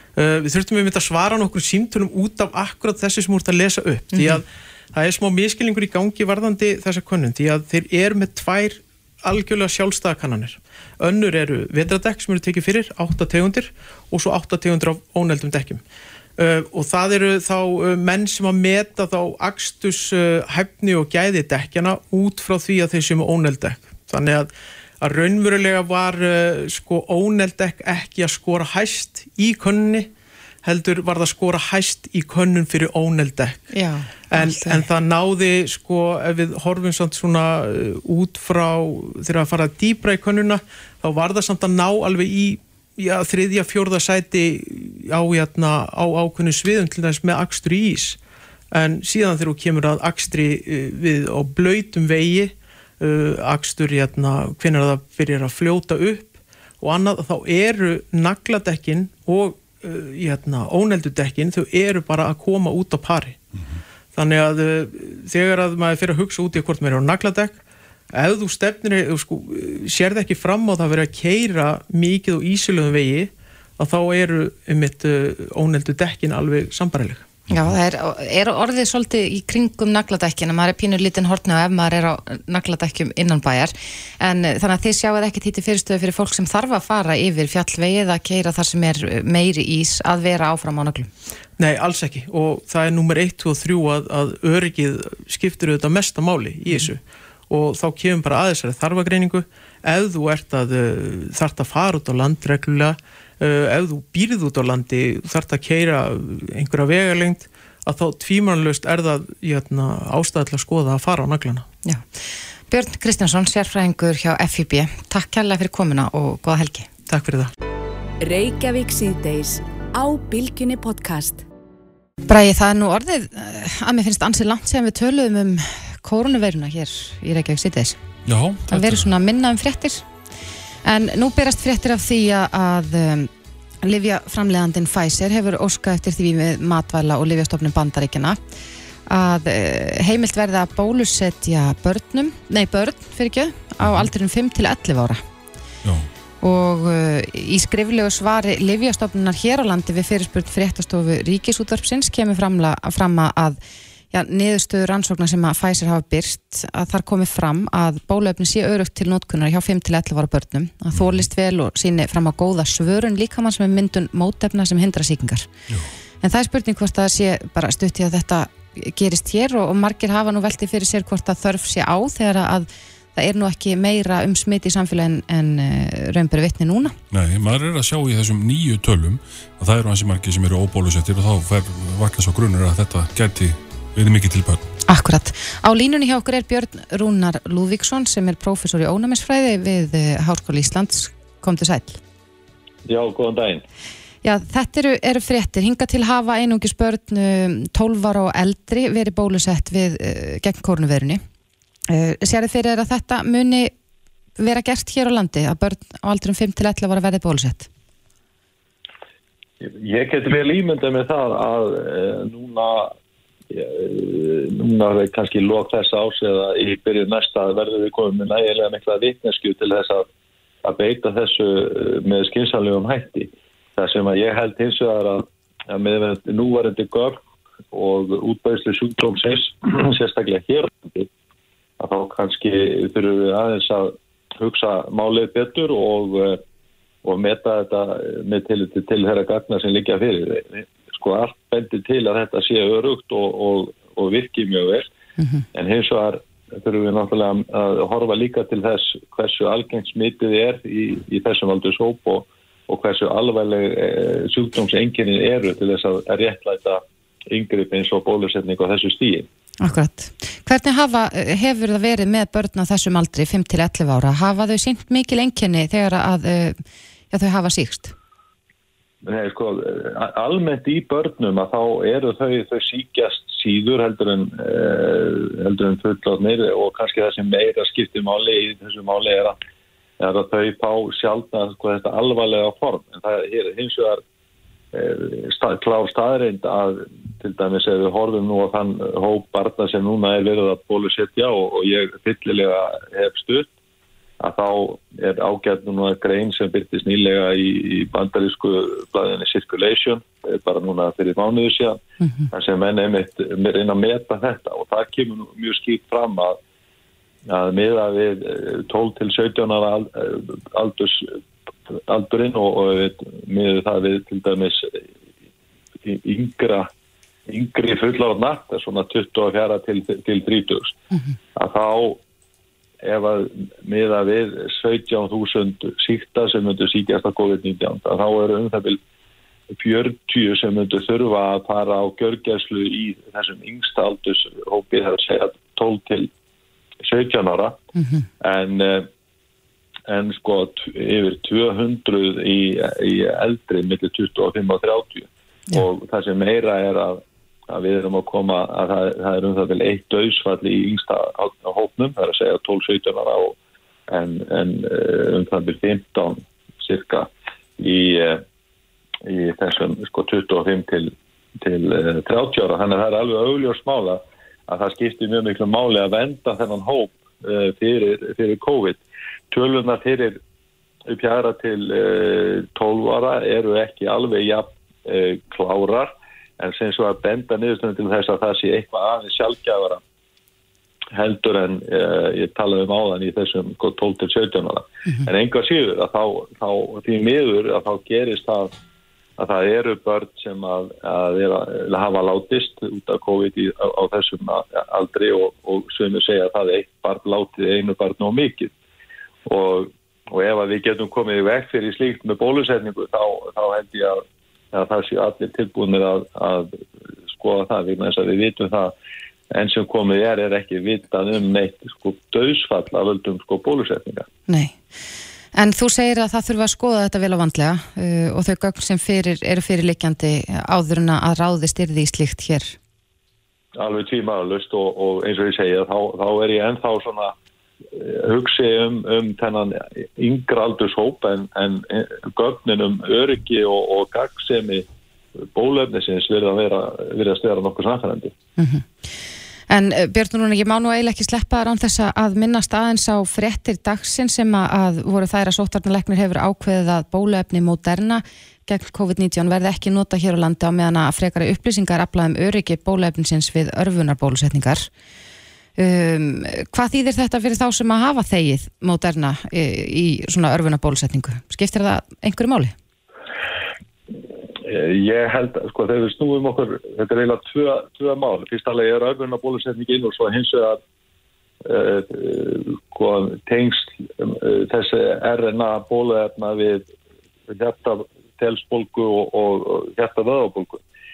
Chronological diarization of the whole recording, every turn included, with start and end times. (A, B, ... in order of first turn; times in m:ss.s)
0:00.2-0:15.8 A
0:04.1-0:04.4 B
0:16.4-0:24.5 A
0:25.0-0:30.1 A
0:30.6-0:33.7 A
0:33.7-0:34.8 B
0:34.3-0:48.2 A
0:48.7-1:03.4 A
1:04.1-1:07.6 A
1:08.1-1:17.3 A
1:17.5-1:31.1 B
1:31.6-1:51.6 A
1:52.7-1:56.9 B
1:57.1-1:57.5 A
1:58.2-2:01.4 C
2:02.2-2:08.0 B
2:08.2-2:09.1 D
2:08.7-2:10.0 B
2:10.8-2:13.3 B
2:13.8-2:18.4 B
2:19.1-2:25.2 B
2:23.8-2:24.1 D
2:26.4-2:33.6 B
2:34.1-2:45.5 B
2:40.9-2:41.2 D
2:46.2-2:56.9 B
2:57.1-3:04.6 D
3:04.9-3:12.0 B
3:12.8-3:13.6 E
3:14.2-3:21.2 B
3:21.9-3:23.7 B
3:24.4-3:27.7 B
3:29.6-3:32.9 E
3:33.5-3:40.1 E
3:40.6-3:47.2 E
3:47.7-3:51.1 E
3:51.8-3:56.4 E
3:57.0-4:04.9 E
4:05.5-4:19.3 E
4:19.6-4:27.9 B
4:29.0-4:39.4 E
4:40.0-4:44.0 E
4:44.7-4:53.5 E
4:54.2-5:06.4 E
5:07.3-5:11.1 E
5:11.7-5:14.8 E
5:15.8-5:16.7 E
5:17.3-5:20.7 E
5:21.4-5:22.0 E
5:22.8-5:28.8 E
5:29.5-5:36.1 E
5:36.8-5:37.6 E
5:38.2-5:38.9 E
5:39.9-5:53.4 E
5:53.9-5:58.2 E
5:59.0-6:10.2 E
6:10.9-6:19.8 E
6:20.9-6:28.6 E
6:29.2-6:38.5 E
6:39.3-6:46.6 E
6:47.1-6:48.7 E
6:49.3-6:54.1 E
6:54.3-6:54.6 B
6:55.3-7:02.6 B
7:03.6-7:07.1 E
7:07.8-7:14.6 E
7:15.3-7:18.1 E
7:18.4-7:18.6 B
7:19.5-7:34.7 B
7:35.6-7:42.5 B
7:44.4-7:50.6 E
7:51.4-7:56.7 E
7:57.3-8:00.6 E